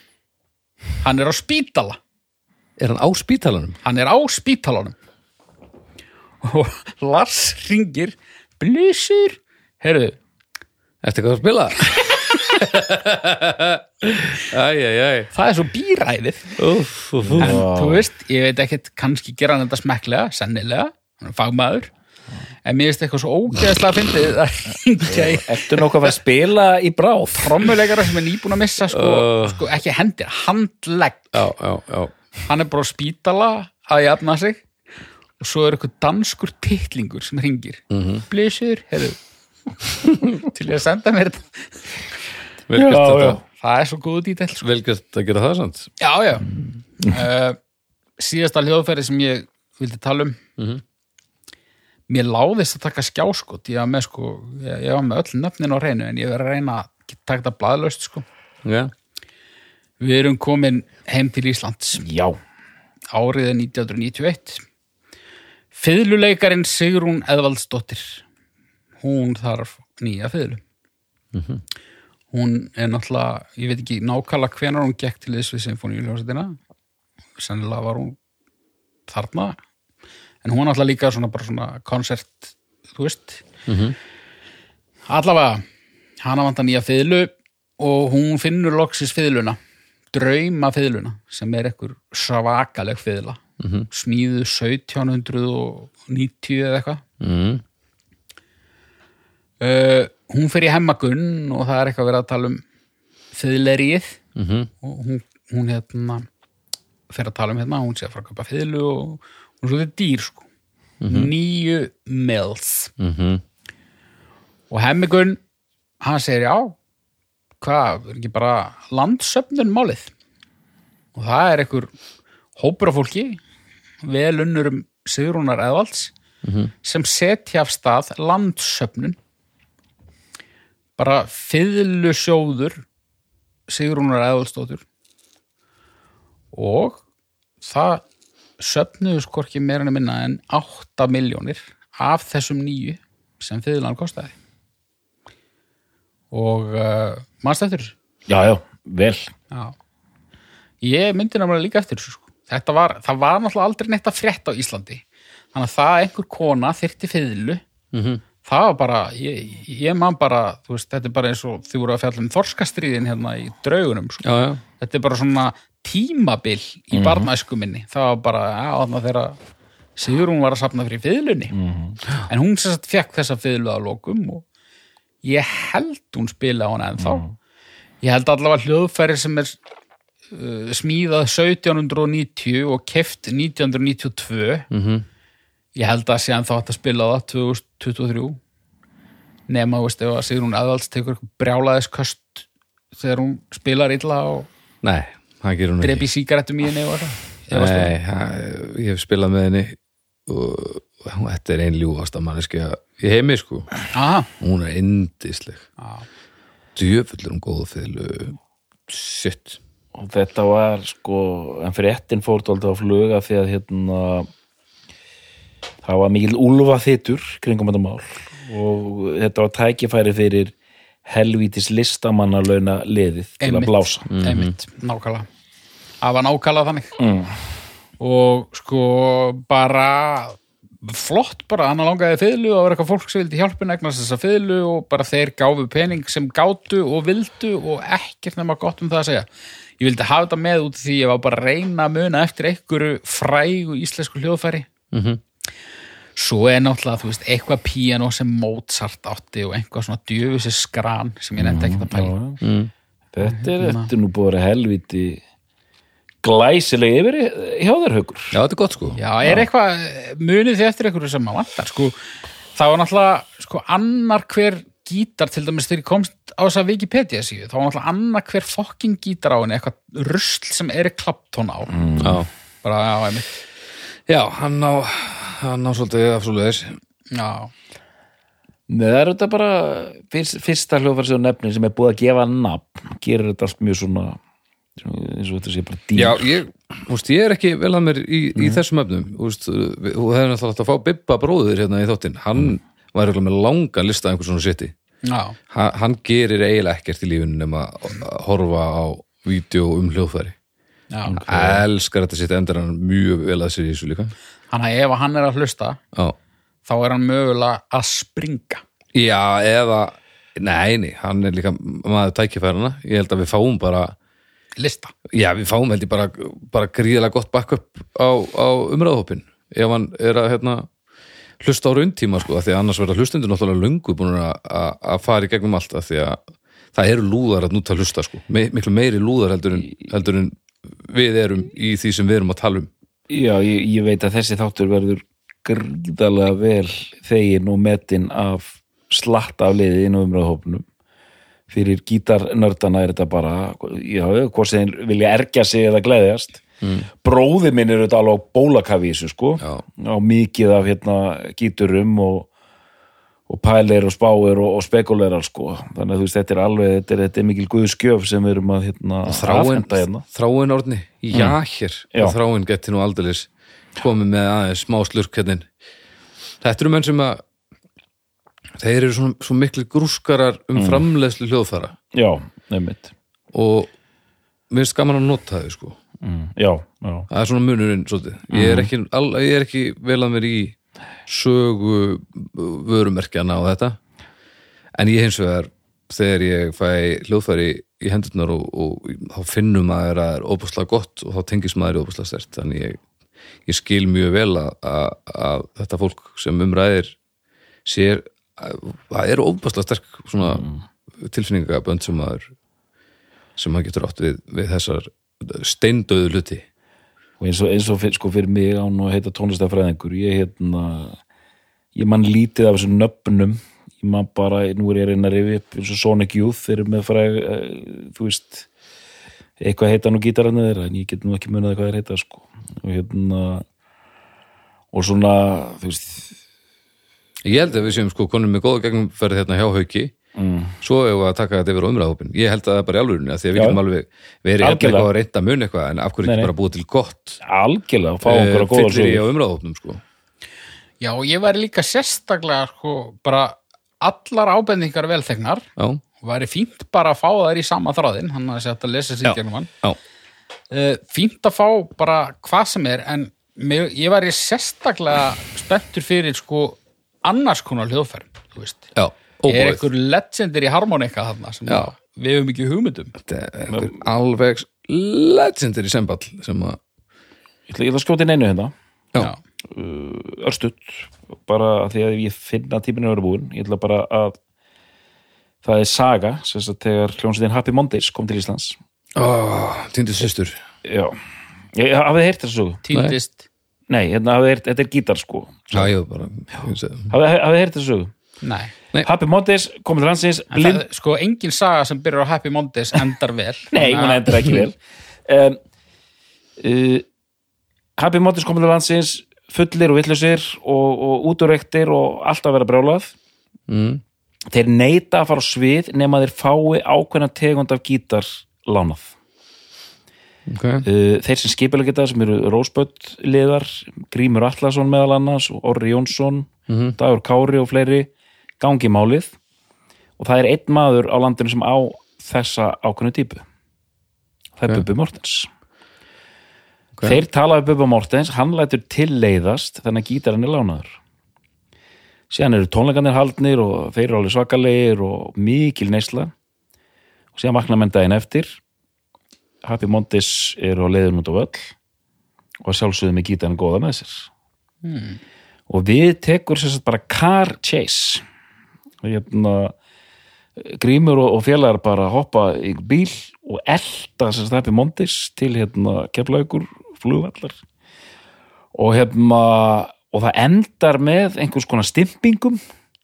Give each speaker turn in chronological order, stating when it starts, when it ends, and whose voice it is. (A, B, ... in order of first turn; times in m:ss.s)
0:01.0-0:02.0 A
0:02.8-0:03.8 B
0:03.8-0:05.0 A
0:06.4-0:10.2 A
0:11.0-0:15.3 B
0:15.3-0:16.6 A
0:16.6-0:17.6 B
0:17.3-0:18.1 C
0:17.4-0:21.9 A
0:22.6-0:26.1 A
0:25.0-0:27.9 C
0:27.4-0:31.3 A
0:28.9-0:29.6 B
0:31.3-0:32.1 B
0:32.5-0:34.6 A
0:35.4-0:39.2 A
0:37.9-0:38.2 B
0:40.2-0:41.9 A
0:42.7-0:43.4 B
0:42.8-0:43.4 C
0:43.5-0:44.6 A
0:44.6-0:45.9 B
0:46.0-0:46.5 A
0:47.0-0:47.6 A
0:48.2-0:50.4 A
0:52.1-0:58.2 A
0:58.6-0:58.9 B
1:00.0-1:02.1 A
1:02.0-1:02.4 C
1:03.1-1:04.6 A
1:05.7-1:08.2 A
1:09.0-1:10.6 A
1:11.3-1:11.6 B
1:12.3-1:16.6 A
1:17.4-1:18.2 A
1:19.1-1:19.6 A
1:20.4-1:23.4 A
1:23.7-1:24.0 B
1:25.1-1:25.6 A
1:26.2-1:29.6 A
1:30.1-1:37.0 A
1:33.6-1:33.9 B
1:37.2-1:37.6 B
1:39.6-1:42.6 A
1:43.3-1:44.2 A
1:44.4-1:44.7 B
1:44.8-1:46.3 A
1:47.1-1:50.5 A
1:51.0-1:51.3 B
1:51.1-1:52.9 A
1:53.0-1:53.4 B
1:54.7-1:55.4 A
1:56.0-1:56.8 A
1:57.6-2:00.1 A
2:01.2-2:01.9 A
2:02.6-2:03.4 A
2:04.0-2:06.1 A
2:06.4-2:06.7 B
2:06.8-2:09.2 A
2:11.0-2:12.9 A
2:13.7-2:14.8 A
2:16.5-2:17.0 A
2:17.6-2:18.0 A
2:18.6-2:24.3 A
2:26.3-2:28.0 A
2:28.3-2:29.3 C
2:29.5-2:29.8 A
2:30.8-2:37.6 A
2:37.9-2:38.2 B
2:38.4-2:44.3 A
2:44.2-2:44.6 B
2:44.8-2:49.4 A
2:46.9-2:47.3 C
2:50.0-2:51.6 A
2:51.5-2:52.0 C
2:52.3-2:54.4 A
2:55.2-2:57.3 A
2:57.0-2:57.3 C
2:58.0-2:59.6 A
3:00.3-3:04.7 A
3:04.7-3:05.0 B
3:05.8-3:08.4 A
3:09.5-3:14.5 A
3:14.8-3:16.1 B
3:15.8-3:17.9 A
3:17.5-3:23.8 B
3:23.9-3:24.3 A
3:24.4-3:25.7 B
3:25.8-3:26.1 A
3:26.8-3:29.6 B
3:30.0-3:34.3 C
3:35.8-3:40.5 C
3:41.1-3:44.1 C
3:43.4-3:45.3 A
3:44.1-3:44.5 B
3:46.0-3:47.0 A
3:47.0-3:47.4 C
3:48.0-3:59.3 A
3:59.8-4:04.7 A
4:04.9-4:05.2 B
4:06.2-4:12.1 A
4:11.4-4:12.4 C
4:12.4-4:12.7 B
4:13.1-4:15.2 C
4:13.3-4:13.9 A
4:16.2-4:18.4 C
4:18.3-4:19.0 B
4:19.0-4:22.0 A
4:22.6-4:31.8 A
4:31.7-4:32.2 C
4:32.0-4:32.3 B
4:32.6-4:33.3 A
4:34.1-4:36.8 B
4:37.1-4:37.5 A
4:38.7-4:44.2 C
4:44.8-4:46.3 C
4:46.0-4:54.7 B
4:55.0-4:55.4 A
4:55.5-5:00.4 B
5:00.9-5:01.2 A
5:01.1-5:04.1 B
5:04.5-5:05.8 A
5:06.7-5:08.6 A
5:08.9-5:13.9 B
5:14.6-5:14.9 A
5:15.1-5:20.7 B
5:21.4-5:26.2 B
5:26.8-5:32.7 B
5:33.1-5:40.6 C
5:41.5-5:46.4 C
5:46.6-5:46.9 B
5:47.0-5:52.3 C
5:53.3-6:00.0 C
5:59.0-6:05.5 B
6:01.1-6:01.4 C
6:06.4-6:07.2 B
6:08.6-6:11.8 B
6:10.6-6:10.9 C
6:11.9-6:12.9 C
6:13.3-6:13.7 B
6:14.5-6:15.8 B
6:16.0-6:17.1 C
6:17.1-6:23.8 B
6:18.3-6:18.7 C
6:24.8-6:32.8 B
6:33.5-6:37.0 B
6:37.7-6:40.4 B
6:40.3-6:40.6 C
6:41.0-6:42.3 B
6:43.4-6:46.4 B
6:47.2-6:51.0 C
6:51.8-6:58.5 C
6:59.4-7:03.4 C
7:04.7-7:06.1 C
7:07.2-7:10.0 B
7:10.2-7:10.6 C
7:10.6-7:17.2 B
7:13.4-7:13.6 C
7:14.4-7:14.9 C
7:16.0-7:16.3 C
7:17.2-7:19.1 C
7:18.0-7:19.8 B
7:20.8-7:25.5 A
7:26.0-7:29.5 A
7:29.0-7:29.8 B
7:30.5-7:38.7 A
7:38.8-7:39.6 B
7:39.3-7:42.9 A
7:43.0-7:46.6 B
7:43.5-7:43.8 C
7:47.5-7:48.5 C
7:49.4-7:54.2 C
7:55.4-7:58.6 C
7:59.0-8:00.4 B
8:00.6-8:01.0 C
8:01.6-8:02.6 C
8:02.6-8:03.2 A
8:03.7-8:05.7 C
8:05.5-8:06.9 B
8:06.9-8:07.9 C
8:08.2-8:08.5 A
8:08.8-8:10.6 C
8:10.3-8:14.1 A
8:13.5-8:15.4 C
8:16.4-8:16.9 C
8:17.8-8:23.0 C
8:23.5-8:23.8 B
8:24.3-8:29.0 C
8:30.3-8:30.7 B
8:30.6-8:37.9 C
8:36.5-8:36.8 B
8:38.4-8:39.1 C
8:40.0-8:43.2 C
8:44.4-8:45.3 C
8:46.8-8:50.8 C
8:52.1-8:56.1 C
8:57.2-8:58.4 C
8:59.4-9:01.5 C
9:02.4-9:04.1 C
9:04.6-9:05.0 A
9:05.5-9:08.0 C
9:08.8-9:09.6 C
9:10.4-9:17.4 C
9:18.6-9:22.4 C